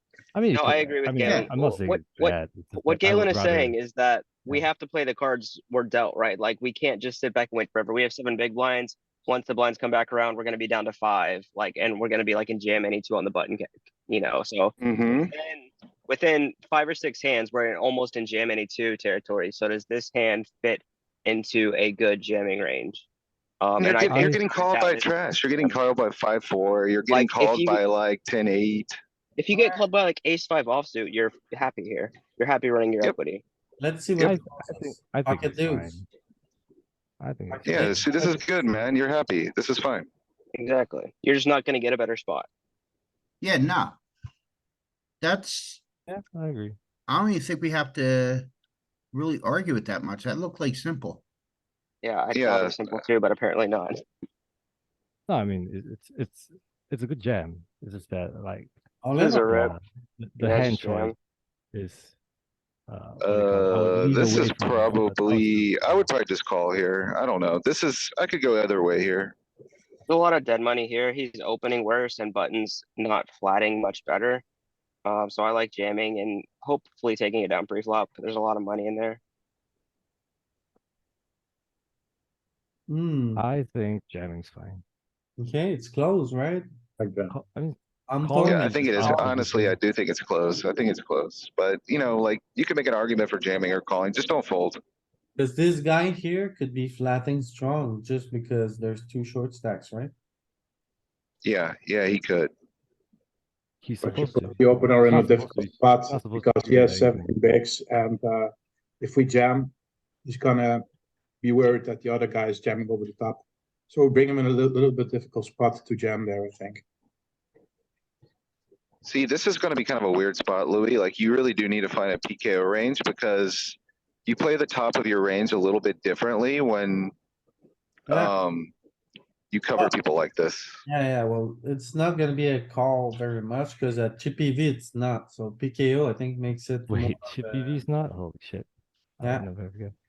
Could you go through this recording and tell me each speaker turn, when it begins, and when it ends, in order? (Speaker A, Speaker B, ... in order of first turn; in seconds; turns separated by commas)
Speaker A: 0.3-3.8, Speaker B: 0.5-14.7, Speaker C: 14.8-15.3, Speaker B: 15.3-23.1, Speaker B: 23.6-25.8, Speaker C: 23.8-28.9, Speaker A: 24.1-24.4, Speaker B: 27.1-27.8, Speaker B: 29.4-33.4, Speaker D: 29.5-29.8, Speaker D: 33.8-36.0, Speaker A: 34.2-36.1, Speaker A: 37.2-38.2, Speaker D: 37.5-38.8, Speaker C: 37.7-40.1, Speaker B: 40.5-42.5, Speaker E: 43.4-44.0, Speaker E: 45.2-45.8, Speaker A: 46.1-46.8, Speaker E: 47.1-48.5, Speaker E: 49.1-51.2, Speaker B: 52.0-54.0, Speaker C: 52.3-53.0, Speaker A: 55.3-58.7, Speaker D: 59.0-59.5, Speaker B: 59.1-59.7, Speaker A: 59.4-61.1, Speaker B: 60.4-61.1, Speaker A: 61.7-62.1, Speaker A: 62.9-66.1, Speaker C: 63.2-69.3, Speaker B: 70.1-74.4, Speaker B: 75.0-79.2, Speaker D: 82.9-83.5, Speaker A: 83.4-84.8, Speaker D: 85.4-86.7, Speaker F: 87.0-87.4, Speaker A: 87.3-89.7, Speaker D: 88.1-89.8, Speaker C: 88.5-94.8, Speaker D: 95.4-100.1, Speaker C: 101.4-102.5, Speaker A: 103.8-107.4, Speaker F: 104.0-109.7, Speaker F: 110.2-110.8, Speaker F: 111.4-116.8, Speaker C: 119.0-127.1, Speaker D: 128.1-128.3, Speaker C: 128.1-128.7, Speaker C: 129.5-130.8, Speaker D: 130.9-137.8, Speaker A: 136.9-139.9, Speaker D: 139.2-139.5